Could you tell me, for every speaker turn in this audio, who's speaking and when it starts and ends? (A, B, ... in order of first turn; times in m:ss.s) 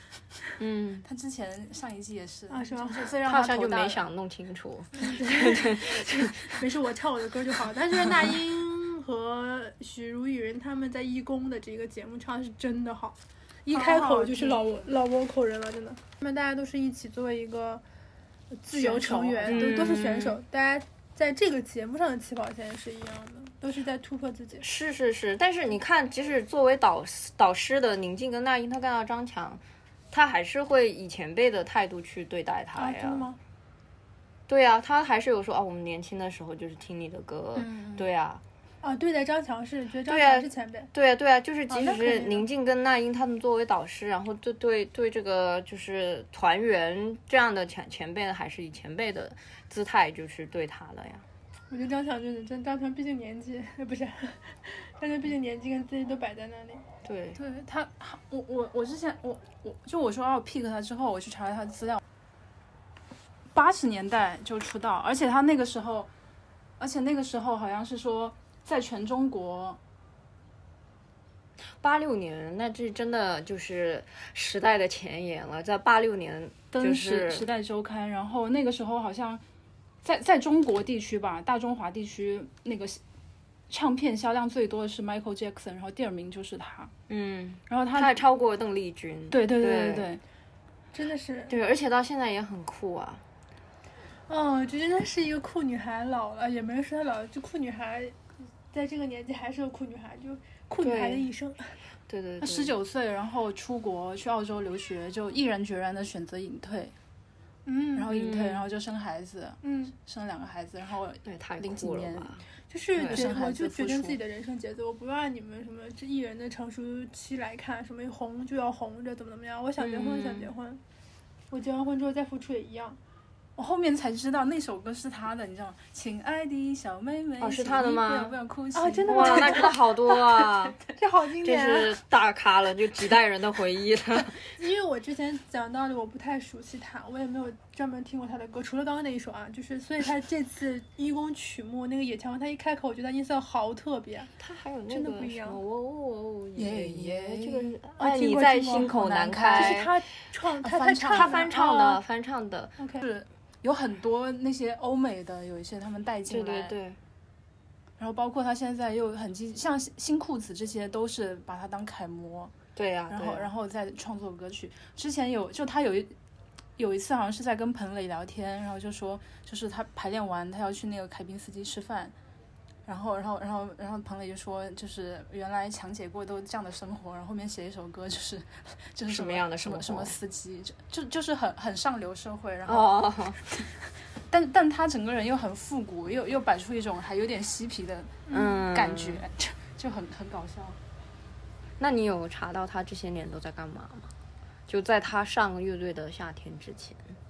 0:00.6-0:01.0 A
0:01.0-0:04.0 B
0:02.5-0:03.1 C
0:03.2-0:06.3 A
0:05.0-0:17.8 C
0:13.7-0:15.0 B
0:18.6-0:24.6 C
0:18.7-0:19.7 B
0:19.5-0:20.4 A
0:24.6-0:33.2 A
0:32.8-0:33.4 C
0:34.5-0:38.4 A
0:37.6-0:38.1 B
0:38.8-0:40.9 C
0:40.1-0:51.2 A
0:41.7-0:42.4 C
0:51.7-0:56.8 C
0:57.0-0:57.4 A
0:57.3-1:02.0 B
1:03.5-1:06.1 B
1:06.8-1:09.8 B
1:11.8-1:17.4 A
1:16.7-1:19.4 B
1:20.0-1:23.0 B
1:23.7-1:26.9 B
1:27.1-1:30.1 A
1:27.7-1:28.2 B
1:29.3-1:30.2 B
1:30.9-1:31.5 C
1:31.5-1:33.2 A
1:34.3-1:38.2 C
1:38.7-1:41.8 C
1:40.8-1:41.3 A
1:42.1-1:42.7 A
1:42.4-1:46.9 B
1:47.6-1:48.1 C
1:47.9-1:52.4 B
1:48.1-1:48.6 A
1:49.6-1:49.9 C
1:51.2-1:52.4 A
1:52.7-2:00.8 C
1:53.0-1:53.2 A
1:53.0-1:54.2 B
1:59.8-2:00.5 A
2:01.5-2:03.0 C
2:03.6-2:09.8 B
2:07.4-2:08.3 A
2:08.7-2:11.9 C
2:09.1-2:10.8 A
2:11.4-2:14.6 A
2:14.5-2:24.3 C
2:24.4-2:29.9 A
2:24.9-2:25.6 C
2:26.6-2:27.8 B
2:28.0-2:28.9 C
2:28.7-2:29.8 B
2:29.5-2:31.7 C
2:30.6-2:32.0 B
2:31.1-2:32.7 A
2:32.8-2:33.0 C
2:33.0-2:36.8 B
2:36.3-2:37.0 A
2:38.0-2:42.5 B
2:42.8-2:43.5 A
2:43.1-2:46.1 B
2:46.8-2:52.1 B
2:52.8-3:10.8 B
2:59.1-3:00.1 A
3:02.7-3:03.4 A
3:08.3-3:08.6 C
3:08.3-3:09.2 A
3:11.8-3:14.1 A
3:14.7-3:17.1 A